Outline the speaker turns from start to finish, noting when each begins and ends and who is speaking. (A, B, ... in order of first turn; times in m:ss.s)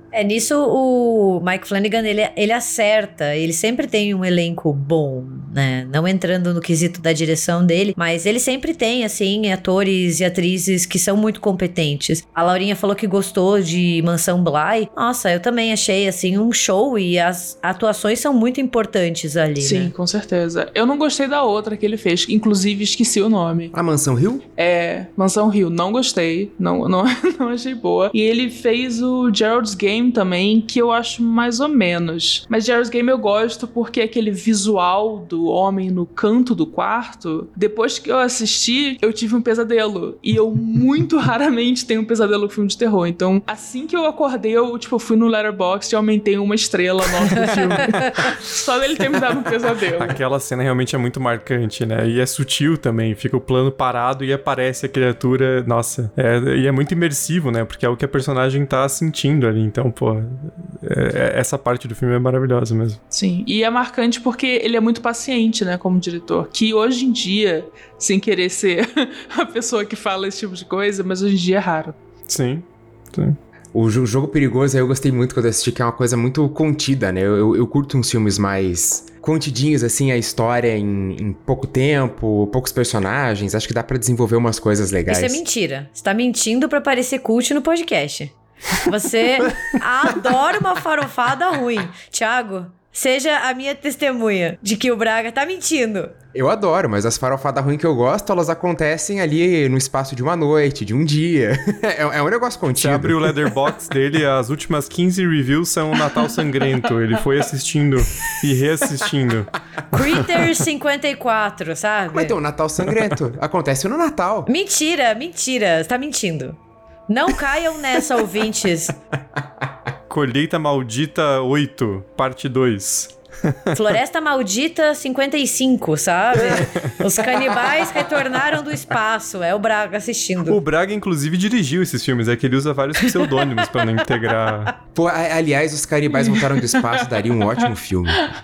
0:00.1-0:19.9 A
0:19.6-0:23.7 B
0:23.7-0:24.4 C
0:24.6-0:50.2 B
0:47.4-0:48.2 D
0:50.0-1:03.0 D
1:03.1-1:12.0 B
1:12.3-1:13.4 D
1:13.7-1:25.4 C
1:25.1-1:36.2 A
1:36.3-1:43.5 C
1:42.8-1:49.5 D
1:49.9-1:52.4 A
1:50.1-1:50.4 D
1:52.1-1:54.5 C
1:54.5-1:56.6 A
1:57.1-1:59.0 A
2:00.1-2:03.8 D
2:03.7-2:10.6 A
2:10.5-2:14.7 D
2:15.0-2:18.2 C